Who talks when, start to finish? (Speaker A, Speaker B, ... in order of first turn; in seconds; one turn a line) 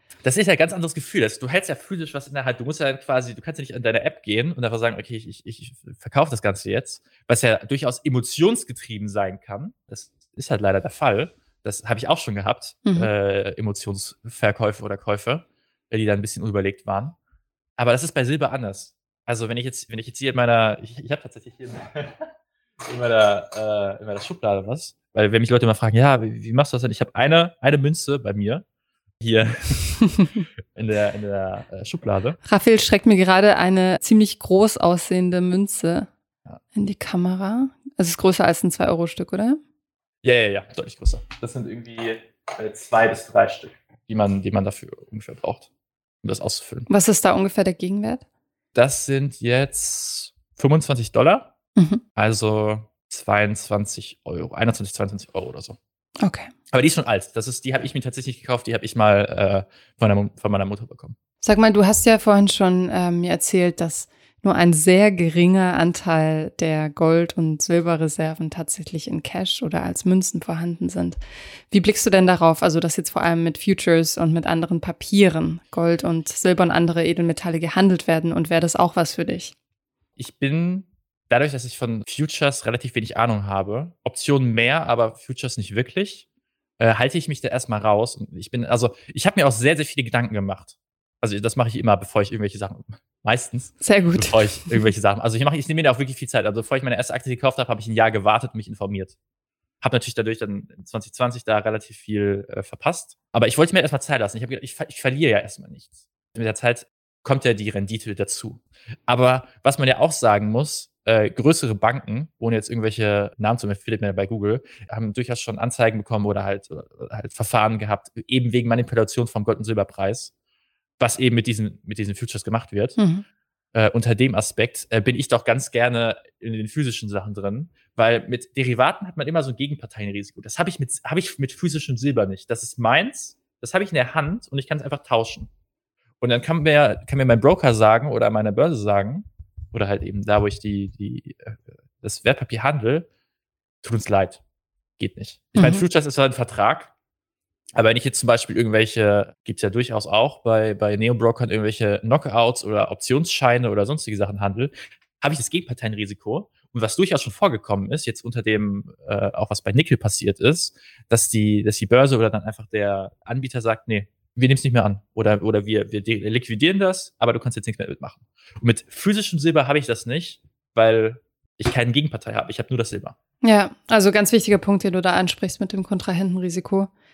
Speaker A: 0.2-17.2
Speaker B: 12.8-13.1
Speaker A: 17.8-22.3
Speaker A: 22.8-28.6
Speaker A: 29.2-30.1
Speaker A: 30.7-32.4
Speaker B: 32.4-36.1
Speaker B: 36.7-39.6
Speaker A: 40.2-45.7
Speaker A: 46.2-46.9
Speaker B: 46.9-48.2
Speaker A: 48.7-51.5
Speaker B: 51.8-52.0
Speaker A: 52.1-55.8
Speaker B: 56.2-56.5
Speaker A: 56.7-61.1
Speaker B: 61.4-71.2
Speaker B: 71.7-79.5
Speaker A: 80.2-86.2
Speaker A: 86.8-99.2
Speaker B: 93.8-94.9
Speaker A: 99.8-120.3
Speaker A: 121.0-123.0
Speaker B: 123.0-123.2
Speaker A: 123.7-135.5
Speaker A: 136.2-143.1
Speaker A: 143.8-144.4
Speaker A: 145.0-146.9
Speaker B: 145.5-145.8
Speaker A: 147.7-173.1
Speaker B: 173.4-176.9